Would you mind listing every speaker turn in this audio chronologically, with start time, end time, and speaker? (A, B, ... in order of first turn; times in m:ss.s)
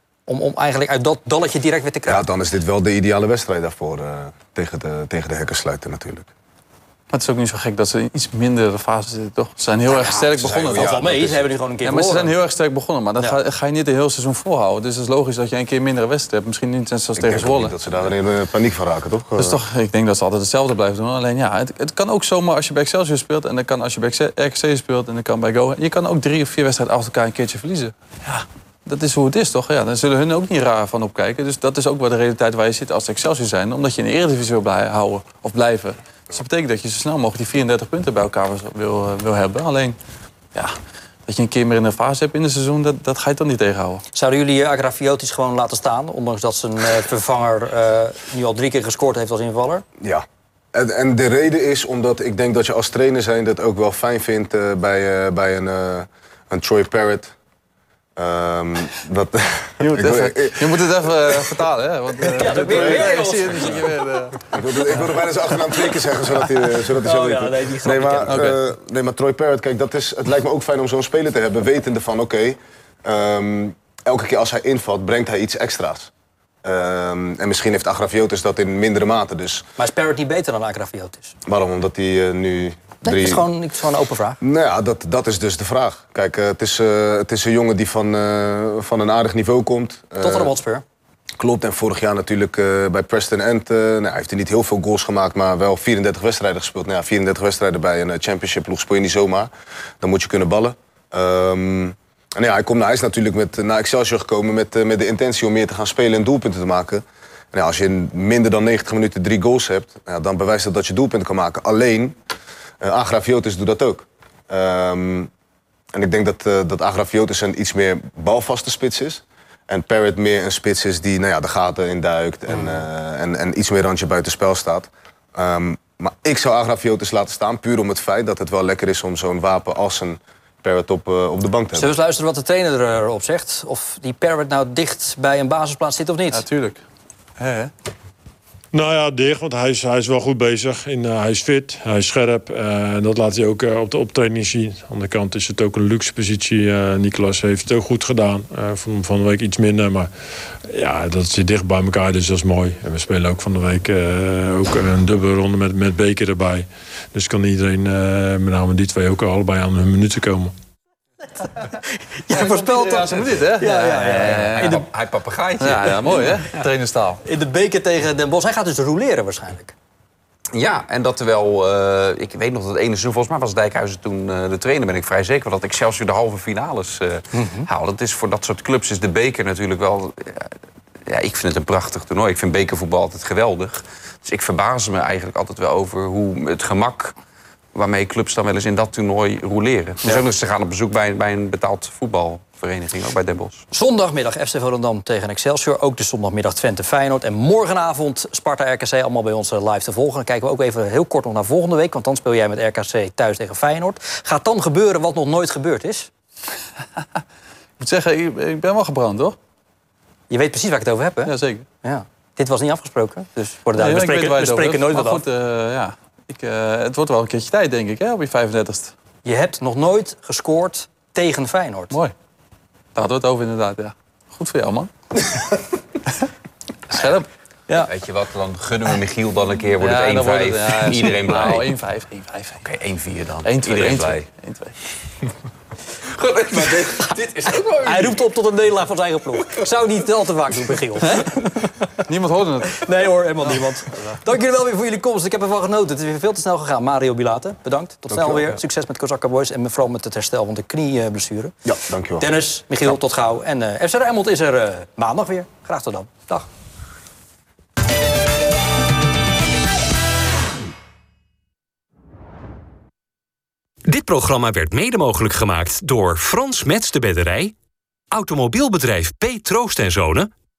0:00.3-0:02.2 A
0:02.0-0:06.3 B
0:07.1-0:10.9 C
0:09.9-0:12.3 A
0:10.4-0:11.5 B
0:11.8-0:17.7 C
0:17.2-0:19.6 B
0:19.4-0:40.0 C
0:41.2-0:44.0 C
0:44.1-0:49.8 A
0:50.0-0:57.3 B
0:58.2-1:01.6 B
0:59.8-1:04.5 C
1:02.4-1:03.8 A
1:02.6-1:03.1 B
1:04.5-1:16.1 B
1:07.0-1:08.4 A
1:08.3-1:08.6 C
1:16.6-1:19.7 B
1:19.8-1:21.3 A
1:21.4-1:23.4 B
1:23.0-1:24.4 A
1:24.4-1:30.5 B
1:30.2-1:30.8 A
1:31.4-1:52.2 B
1:52.8-1:55.3 B
1:55.9-2:11.9 B
2:11.8-2:16.4 A
2:16.3-2:16.8 C
2:17.4-2:17.7 C
2:18.7-2:30.1 D
2:30.6-2:40.5 D
2:41.4-2:44.9 A
2:42.3-2:44.8 C
2:44.1-2:46.4 E
2:45.6-2:47.2 C
2:47.2-2:49.7 A
2:50.5-3:00.5 E
2:57.3-2:57.7 A
3:01.0-3:07.2 E
3:07.7-3:13.6 E
3:13.7-3:26.1 A
3:27.8-3:29.4 C
3:30.3-3:31.3 A
3:31.2-3:31.6 C
3:31.8-3:35.2 A
3:33.8-3:38.9 C
3:39.2-3:42.0 A
3:42.9-3:44.9 C
3:46.9-3:47.3 C
3:47.8-3:51.7 E
3:49.8-3:52.7 C
3:52.6-3:54.2 E
3:53.4-3:54.8 C
3:56.0-3:58.2 E
3:57.8-4:01.9 A
4:02.0-4:02.8 C
4:02.8-4:11.6 A
4:03.9-4:04.2 C
4:08.1-4:08.6 B
4:11.6-4:12.3 B
4:12.2-4:16.5 A
4:23.9-4:27.5 F
4:28.1-4:30.3 F